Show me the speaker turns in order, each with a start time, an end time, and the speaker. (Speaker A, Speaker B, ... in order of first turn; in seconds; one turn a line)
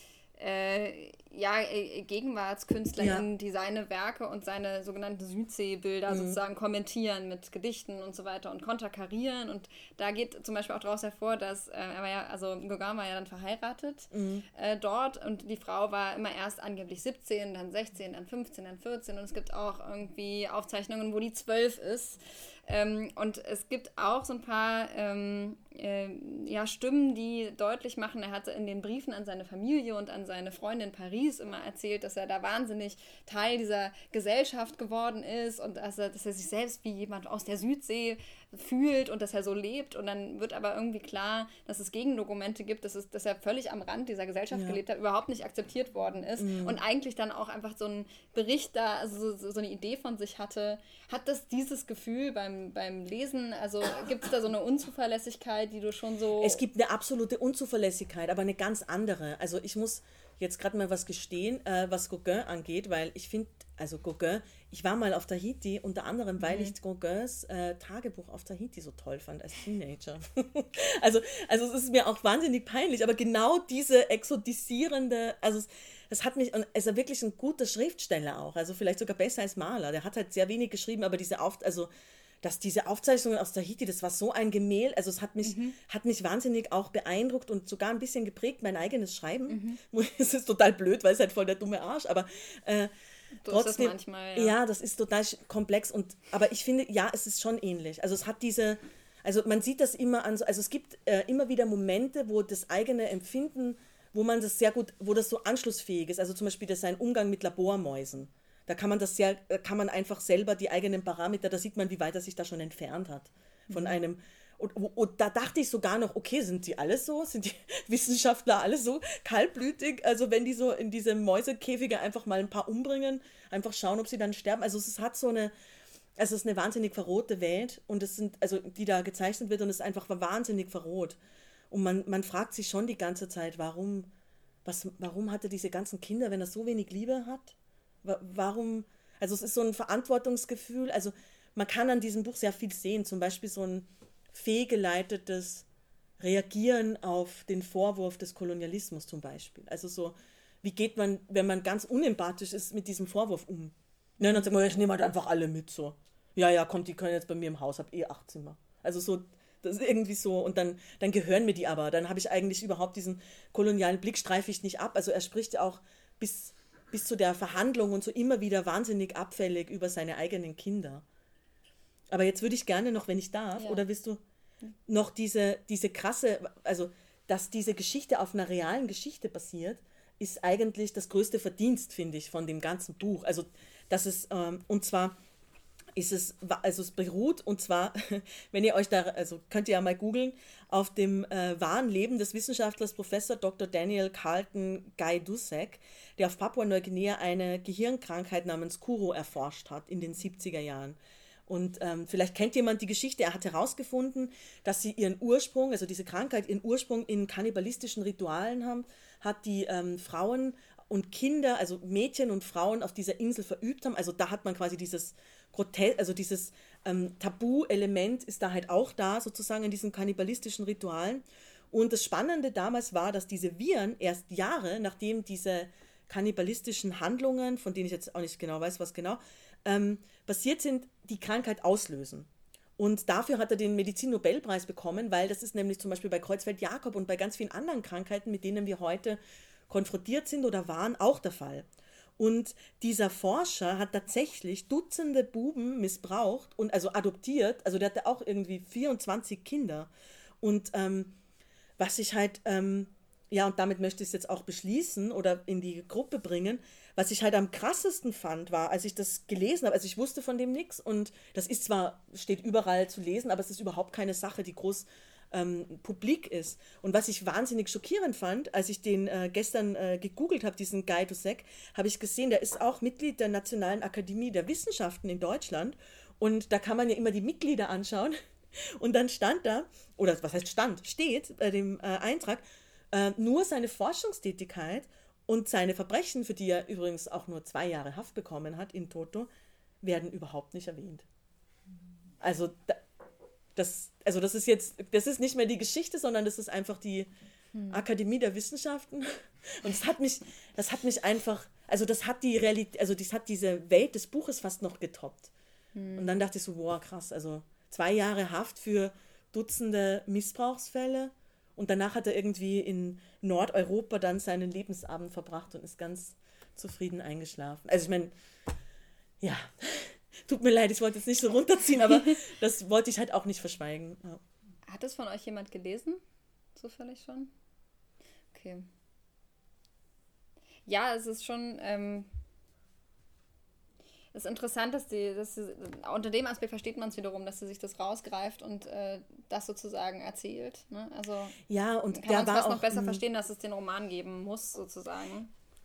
Speaker A: 0.4-56.6
Speaker B: 3.0-3.2
Speaker B: 6.1-6.4
Speaker B: 14.1-14.4
Speaker B: 44.5-44.8
Speaker B: 46.4-46.8
Speaker B: 56.4-81.9
Speaker A: 66.4-66.7
Speaker B: 82.4-92.9
Speaker A: 85.4-85.8
Speaker A: 89.5-89.8
Speaker A: 93.4-94.5
Speaker B: 93.5-125.5
Speaker A: 113.7-114.0
Speaker B: 126.2-131.2
Speaker B: 131.7-134.1
Speaker B: 134.7-145.7
Speaker B: 146.2-171.1
Speaker B: 172.1-174.2
Speaker A: 173.6-173.8
Speaker B: 174.9-185.2
Speaker B: 185.9-241.7
Speaker B: 242.2-249.9
Speaker B: 250.4-251.2
Speaker B: 251.8-289.3
Speaker B: 289.8-291.1
Speaker B: 292.2-292.8
Speaker B: 293.6-297.1
Speaker A: 297.6-297.8
Speaker B: 297.7-305.3
Speaker A: 305.8-306.1
Speaker B: 306.0-318.1
Speaker B: 319.2-324.2
Speaker A: 324.7-326.0
Speaker A: 326.6-327.3
Speaker A: 328.3-328.7
Speaker A: 330.7-332.1
Speaker A: 334.1-341.4
Speaker B: 341.5-343.0
Speaker A: 341.9-345.3